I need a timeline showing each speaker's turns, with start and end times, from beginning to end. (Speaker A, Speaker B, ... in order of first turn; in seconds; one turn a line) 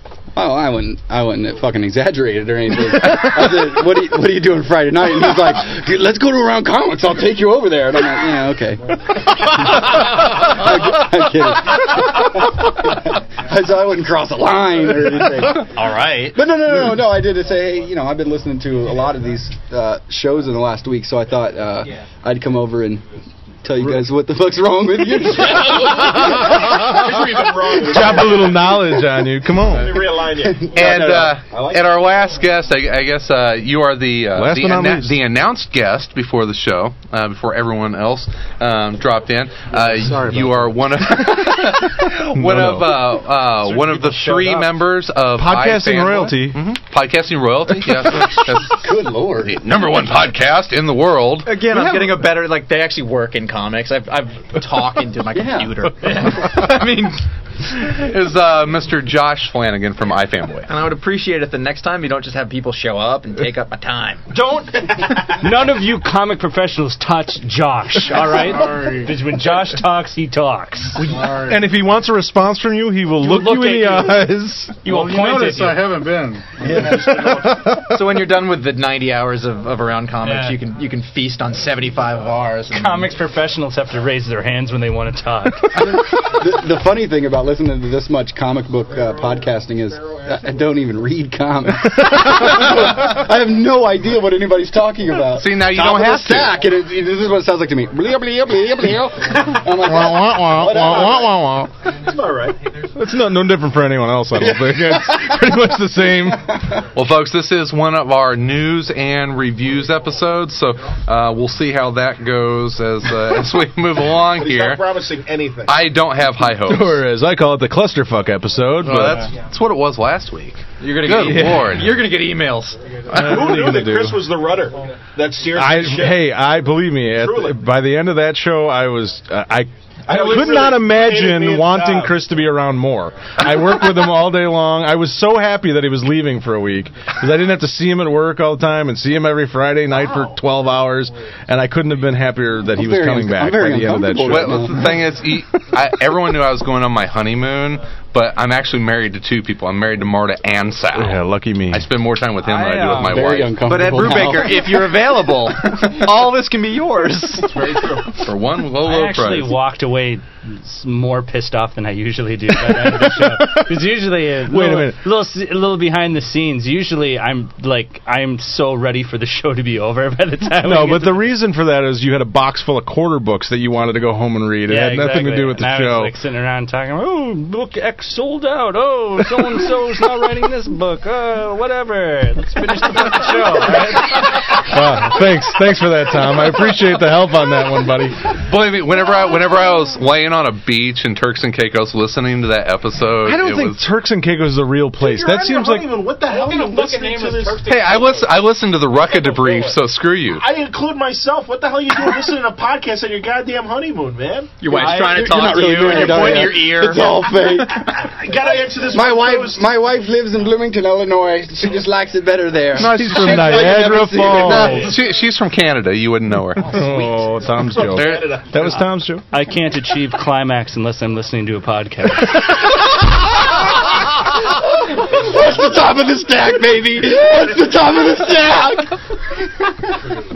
Speaker A: 0.3-15.7
Speaker B: 15.2-15.5
Speaker C: 15.6-16.4
Speaker A: 16.3-23.0
Speaker A: 23.6-26.9
Speaker D: 25.8-27.0
Speaker B: 26.8-28.7
Speaker D: 27.8-30.1
Speaker A: 28.6-29.5
Speaker B: 29.6-31.9
Speaker A: 30.4-31.3
Speaker E: 30.7-51.6
Speaker D: 34.3-35.2
Speaker F: 39.8-40.7
Speaker D: 42.3-43.0
Speaker G: 43.6-44.7
Speaker D: 45.4-46.6
Speaker A: 48.7-49.6
Speaker C: 51.4-57.2
Speaker D: 51.7-52.1
Speaker A: 55.3-55.7
Speaker E: 57.8-60.7
Speaker C: 60.7-64.2
Speaker G: 64.3-71.1
Speaker F: 68.0-69.2
Speaker F: 71.0-71.7
Speaker D: 71.0-74.8
Speaker G: 73.2-74.3
Speaker G: 74.8-75.9
Speaker F: 74.8-77.6
Speaker D: 76.8-77.8
Speaker C: 77.6-83.1
Speaker G: 80.2-80.6
Speaker G: 82.7-85.8
Speaker A: 85.8-100.6
Speaker E: 95.3-96.6
Speaker D: 99.6-101.7
Speaker B: 100.5-102.6
Speaker D: 102.9-106.5
Speaker A: 104.3-105.4
Speaker A: 106.2-106.8
Speaker E: 106.9-114.8
Speaker B: 114.4-115.8
Speaker E: 115.7-117.0
Speaker D: 116.7-119.3
Speaker E: 118.8-122.0
Speaker C: 120.8-122.8
Speaker D: 121.1-121.7
Speaker D: 123.1-124.2
Speaker B: 123.2-126.3
Speaker D: 125.5-144.8
Speaker B: 127.0-127.6
Speaker B: 130.1-132.2
Speaker B: 139.9-140.4
Speaker A: 142.6-145.0
Speaker E: 144.2-153.8
Speaker D: 150.9-151.9
Speaker C: 152.5-157.7
Speaker G: 152.5-152.9
Speaker A: 152.9-154.9
Speaker B: 157.7-158.0
Speaker E: 158.2-159.5
Speaker G: 158.8-171.3
Speaker D: 162.6-163.9
Speaker D: 164.4-165.0
Speaker D: 170.6-176.1
Speaker G: 174.7-184.6
Speaker D: 184.5-188.2
Speaker E: 188.3-193.8
Speaker D: 193.2-196.0
Speaker B: 195.0-197.8
Speaker G: 196.3-198.2
Speaker E: 197.7-200.4
Speaker B: 200.3-204.6
Speaker C: 204.6-207.3
Speaker A: 204.7-208.1
Speaker G: 204.7-205.5
Speaker B: 208.0-209.6
Speaker A: 208.9-214.8
Speaker D: 212.7-214.8
Speaker E: 213.3-213.5
Speaker B: 213.4-213.8
Speaker E: 214.2-216.8
Speaker G: 214.6-214.9
Speaker D: 216.6-219.2
Speaker B: 217.6-218.9
Speaker E: 217.9-218.4
Speaker G: 218.7-222.5
Speaker A: 224.7-229.0